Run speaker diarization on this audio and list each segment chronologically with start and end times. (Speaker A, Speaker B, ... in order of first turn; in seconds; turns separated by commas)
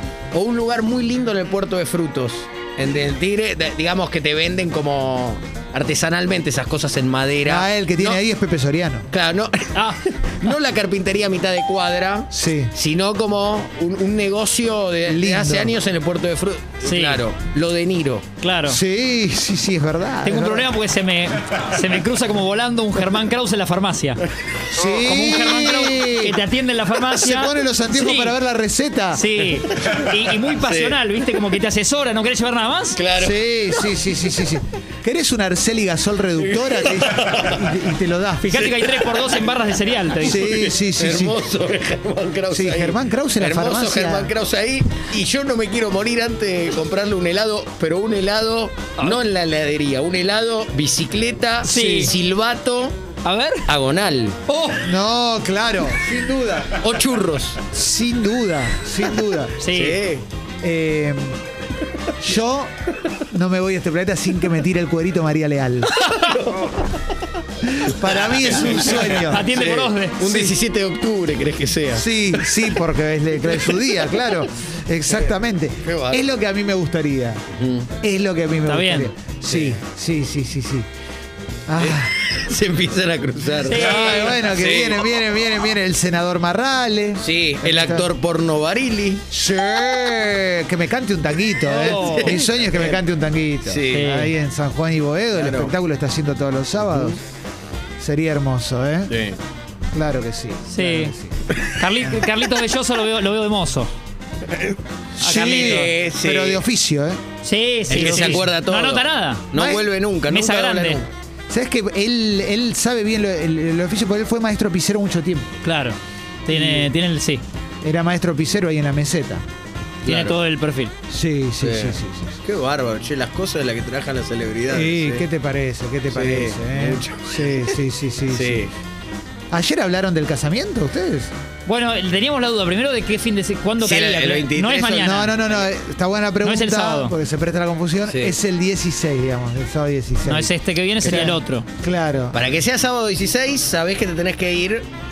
Speaker A: 0.3-8.2, Speaker B: 7.5-9.1, Speaker A: 9.1-18.2, Speaker C: 9.7-10.0, Speaker B: 12.3-12.7, Speaker B: 15.1-15.7, Speaker C: 16.8-17.2, Speaker C: 18.4-18.8, Speaker B: 18.6-20.7, Speaker C: 20.2-24.2, Speaker B: 24.7-26.4, Speaker A: 24.8-25.0, Speaker C: 25.0-28.4, Speaker B: 27.1-29.3, Speaker C: 29.1-33.0, Speaker A: 29.8-30.0, Speaker A: 30.6-31.0, Speaker A: 33.0-33.9, Speaker B: 33.2-38.7, Speaker A: 36.4-37.6, Speaker C: 38.4-40.6, Speaker A: 38.5-39.4, Speaker A: 40.1-53.0, Speaker B: 40.2-41.4, Speaker B: 42.5-44.3, Speaker B: 51.6-52.1, Speaker C: 51.6-52.1, Speaker C: 53.2-53.7, Speaker A: 53.7-54.4, Speaker C: 54.5-54.9, Speaker B: 54.8-56.8, Speaker A: 56.8-57.6, Speaker B: 57.7-59.5, Speaker C: 59.6-60.0, Speaker A: 59.6-60.2, Speaker B: 60.6-61.4, Speaker B: 62.2-62.7, Speaker B: 63.3-65.9, Speaker C: 65.9-66.3, Speaker A: 66.0-66.9, Speaker B: 67.6-69.7, Speaker A: 68.0-72.8, Speaker C: 68.8-70.2, Speaker B: 70.2-70.5, Speaker B: 71.9-77.4, Speaker A: 73.4-74.0, Speaker A: 75.1-76.2, Speaker A: 77.6-77.9, Speaker B: 78.0-80.8, Speaker C: 78.7-79.1, Speaker A: 79.4-79.8, Speaker B: 81.7-82.1, Speaker A: 81.8-85.2, Speaker C: 83.7-84.5, Speaker B: 83.7-88.1, Speaker A: 87.2-89.2, Speaker B: 89.3-97.2, Speaker C: 91.7-92.5, Speaker A: 91.7-93.0, Speaker A: 93.6-94.1, Speaker C: 93.9-94.3, Speaker A: 95.3-95.7, Speaker B: 98.0-99.1, Speaker A: 99.1-99.4, Speaker B: 99.9-101.3, Speaker C: 100.7-101.1, Speaker C: 101.8-103.9, Speaker B: 105.2-107.2, Speaker C: 105.2-105.9, Speaker A: 105.3-106.6, Speaker C: 107.4-109.4, Speaker B: 107.9-108.4, Speaker A: 107.9-111.0, Speaker B: 109.5-109.8, Speaker C: 110.3-111.0, Speaker B: 111.5-115.5, Speaker C: 115.6-117.4, Speaker B: 116.5-116.9, Speaker B: 117.8-119.4, Speaker A: 120.0-120.3, Speaker C: 120.0-120.9, Speaker B: 121.1-122.4, Speaker A: 121.6-125.3, Speaker B: 124.7-128.7, Speaker A: 126.1-127.8, Speaker A: 128.3-128.7, Speaker B: 129.5-131.3, Speaker C: 131.7-135.5, Speaker A: 133.8-135.2, Speaker B: 134.9-142.4, Speaker C: 136.4-137.1, Speaker A: 138.1-138.3, Speaker C: 140.2-141.6, Speaker A: 142.3-144.8